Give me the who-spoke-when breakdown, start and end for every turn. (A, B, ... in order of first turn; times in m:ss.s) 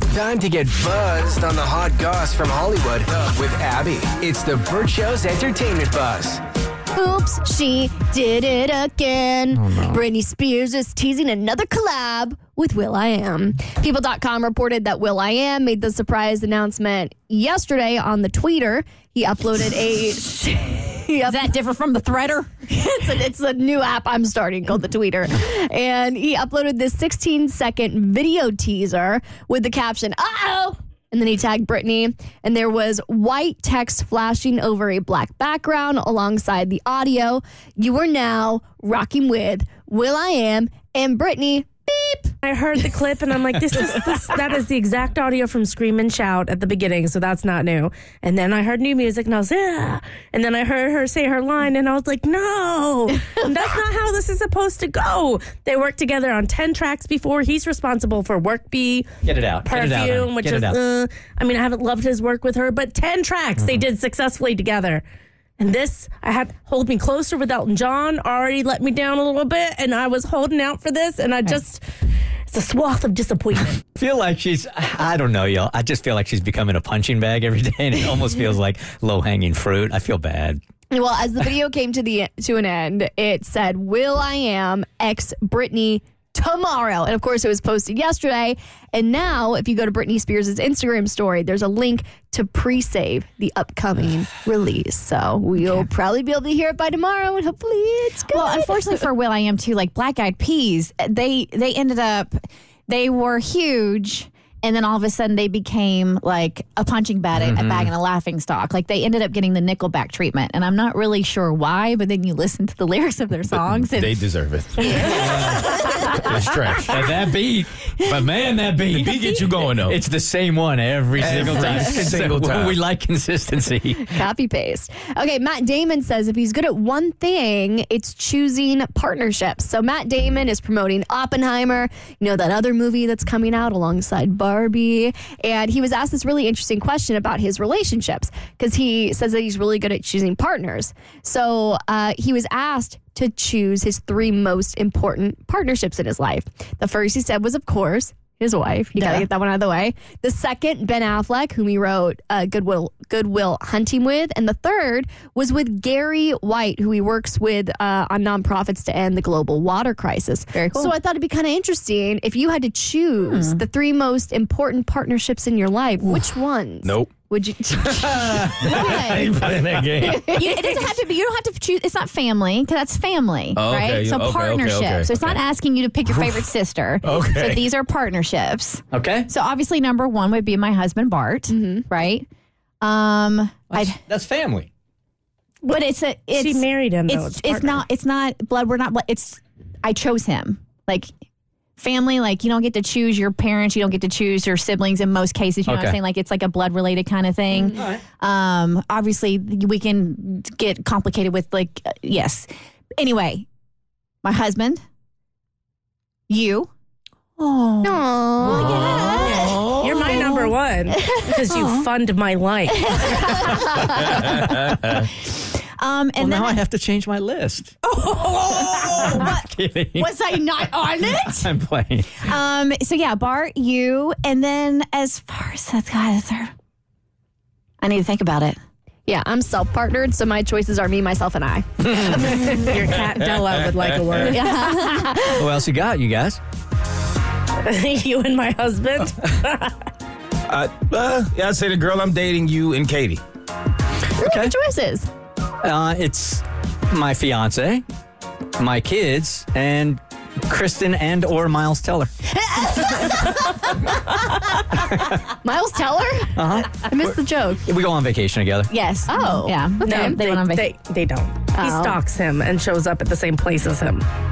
0:00.1-0:06.4 A
0:06.9-0:21.6 B
0:09.6-0:10.0 C
0:21.2-0:22.6 D
0:22.7-0:42.3 B
0:42.4-0:59.1 E
0:59.2-1:00.8 C
0:59.6-1:05.0 E
1:05.6-1:11.8 E
1:12.5-1:13.8 E
1:14.0-1:20.6 C
1:20.9-1:39.0 B
1:38.3-1:54.2 D
1:47.3-1:47.9 C
1:53.7-1:57.0 F
1:54.8-1:56.1 D
1:55.0-1:55.8 C
1:56.8-2:04.2 C
1:58.9-2:00.0 F
2:01.2-2:02.8 F
2:04.1-2:48.6 B
2:29.0-2:29.2 D
2:40.5-2:40.9 D
2:43.3-2:43.6 D
2:46.8-2:47.2 F
2:48.0-2:50.3 F
2:48.3-2:50.4 C
2:48.7-2:49.3 D
2:50.0-3:02.3 D
2:53.6-2:55.4 F
2:56.1-2:56.4 F
2:57.0-2:57.7 F
2:58.9-2:59.3 C
3:01.5-3:01.8 B
3:02.8-3:04.0 D
3:03.7-3:04.7 C
3:05.6-3:11.1 D
3:06.3-3:07.8 E
3:11.8-3:23.5 D
3:15.7-3:16.0 C
3:17.7-3:18.0 C
3:24.2-3:24.8 D
3:26.3-3:26.7 D
3:27.4-3:30.3 D
3:27.8-3:29.2 B
3:28.7-3:29.2 C
3:29.2-3:33.5 E
3:31.0-3:31.8 D
3:32.9-3:36.6 D
3:36.2-3:37.8 C
3:37.8-3:41.5 D
3:38.5-3:40.1 C
3:41.0-3:42.3 C
3:42.2-3:46.5 D
3:47.8-3:48.6 D
3:49.1-3:52.7 B
3:52.4-3:54.6 E
3:54.3-3:55.4 B
3:54.3-3:55.4 D
3:55.3-3:56.4 C
3:57.6-3:59.8 E
4:00.5-4:03.2 F
4:04.2-4:05.1 B
4:04.2-4:04.5 C
4:05.6-4:07.8 C
4:08.6-4:12.1 C
4:12.6-4:13.7 B
4:14.7-4:17.6 B
4:16.4-4:18.7 C
4:18.7-4:20.7 D
4:19.1-4:20.2 B
4:19.8-4:24.0 E
4:21.5-4:22.0 B